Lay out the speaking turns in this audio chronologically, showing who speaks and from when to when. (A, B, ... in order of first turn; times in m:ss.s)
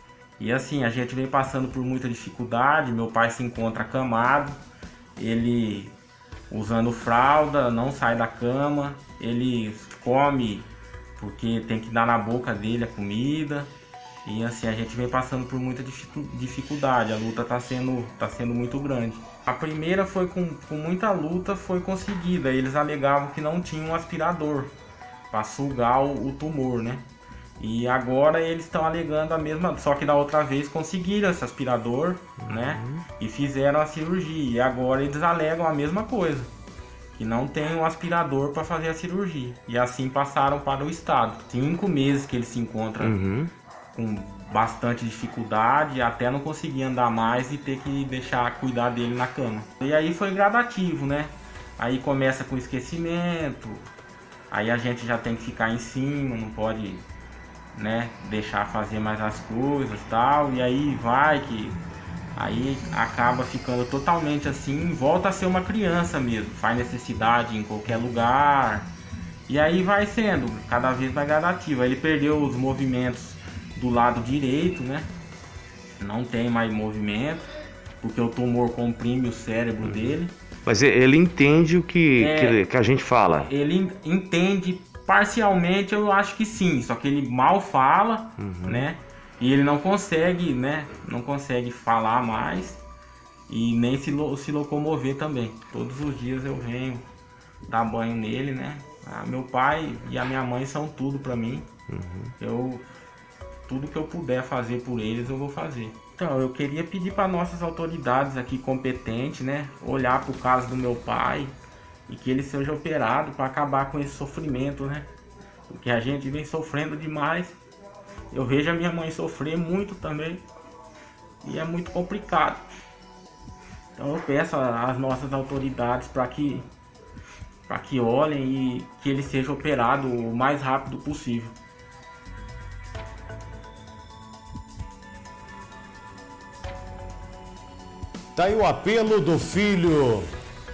0:00.4-0:04.6 A
0:05.2-0:05.9 A
0:06.5-0:13.7 A
0:14.2-0:24.7 A
0:25.3-0:27.0 A
0:27.6-0:36.5 A
0:37.1-0:43.2 A
0:43.0-0:43.5 B
0:43.9-0:53.8 A
0:54.5-0:57.0 A
0:57.7-1:01.8 A
1:02.3-1:08.9 A
1:09.5-1:15.1 A
1:16.0-1:17.5 A
1:18.0-1:20.3 A
1:19.8-1:23.5 B
1:22.2-1:22.6 A
1:23.4-1:32.8 A
1:28.4-1:28.9 B
1:33.5-1:37.0 A
1:37.7-1:41.7 A
1:41.9-1:42.3 B
1:42.4-1:42.8 A
1:43.7-1:51.5 A
1:52.1-1:55.1 A
1:55.7-1:57.6 A
1:58.3-2:00.4 A
2:01.4-2:02.6 A
2:04.0-2:06.7 A
2:07.7-2:11.5 A
2:18.3-2:20.3 B